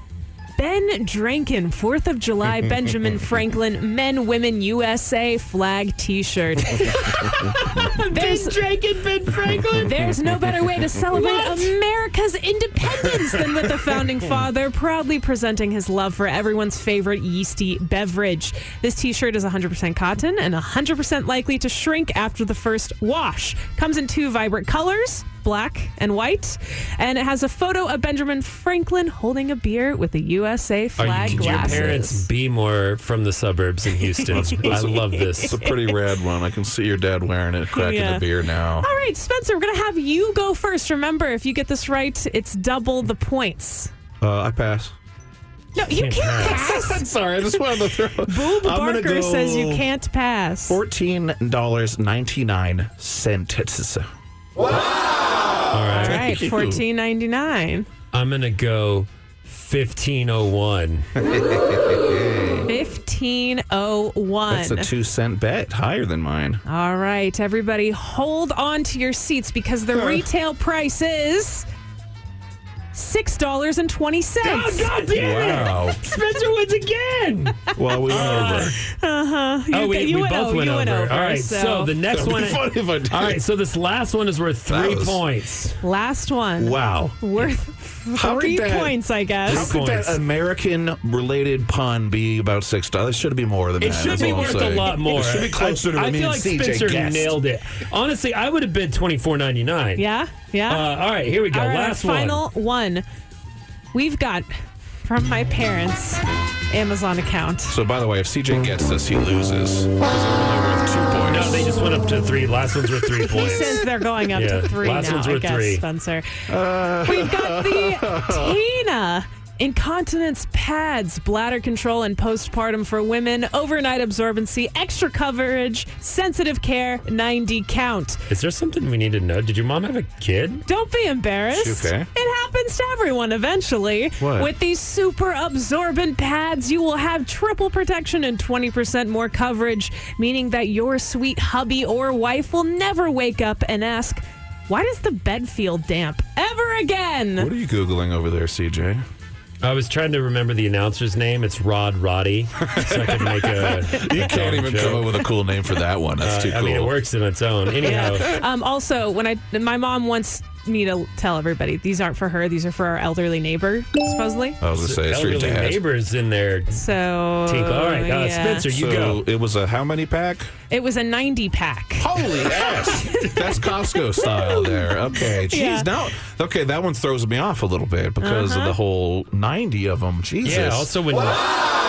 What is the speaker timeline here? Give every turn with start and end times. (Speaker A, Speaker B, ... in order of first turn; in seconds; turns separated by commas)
Speaker A: 0.6-8.6, Speaker B: 6.9-10.0, Speaker A: 9.7-32.3, Speaker B: 11.1-11.6, Speaker B: 31.0-35.6, Speaker C: 31.2-31.9, Speaker A: 34.1-35.8, Speaker C: 34.3-38.9, Speaker A: 37.7-38.3, Speaker A: 38.8-43.9, Speaker C: 44.2-44.9, Speaker A: 45.8-47.0, Speaker B: 45.9-46.8, Speaker C: 46.4-49.9, Speaker A: 48.2-50.8, Speaker C: 50.7-54.1, Speaker B: 55.7-56.3, Speaker C: 55.9-56.8, Speaker A: 55.9-57.9, Speaker B: 58.1-61.0, Speaker C: 61.2-62.7, Speaker A: 62.6-64.9, Speaker C: 64.5-66.6, Speaker A: 66.7-71.7, Speaker C: 69.9-70.2, Speaker A: 72.9-74.9, Speaker B: 74.4-78.8, Speaker C: 75.1-76.0, Speaker C: 77.7-78.8, Speaker A: 78.1-81.9, Speaker B: 79.7-85.8, Speaker C: 82.1-83.4, Speaker C: 84.7-85.2, Speaker A: 85.8-89.7, Speaker C: 86.6-87.4, Speaker C: 88.1-97.3, Speaker B: 89.5-90.2, Speaker B: 93.8-100.0, Speaker A: 100.0-100.8, Speaker B: 100.7-102.4, Speaker A: 101.5-103.0, Speaker A: 103.9-107.8, Speaker C: 107.7-111.7, Speaker B: 111.3-115.8, Speaker A: 113.2-116.4, Speaker C: 116.5-118.5, Speaker A: 117.0-128.2, Speaker B: 128.3-130.6, Speaker A: 130.7-147.5, Speaker C: 131.5-132.1, Speaker C: 134.2-134.5, Speaker C: 147.4-149.0, Speaker B: 149.6-155.1, Speaker C: 152.6-156.9, Speaker B: 156.2-158.4, Speaker A: 157.8-164.6, Speaker C: 164.6-165.8, Speaker B: 164.8-166.8, Speaker A: 166.7-168.7, Speaker B: 167.4-169.2, Speaker C: 168.7-170.5, Speaker A: 170.7-175.9, Speaker C: 172.0-180.9, Speaker A: 178.2-178.8, Speaker B: 180.4-181.4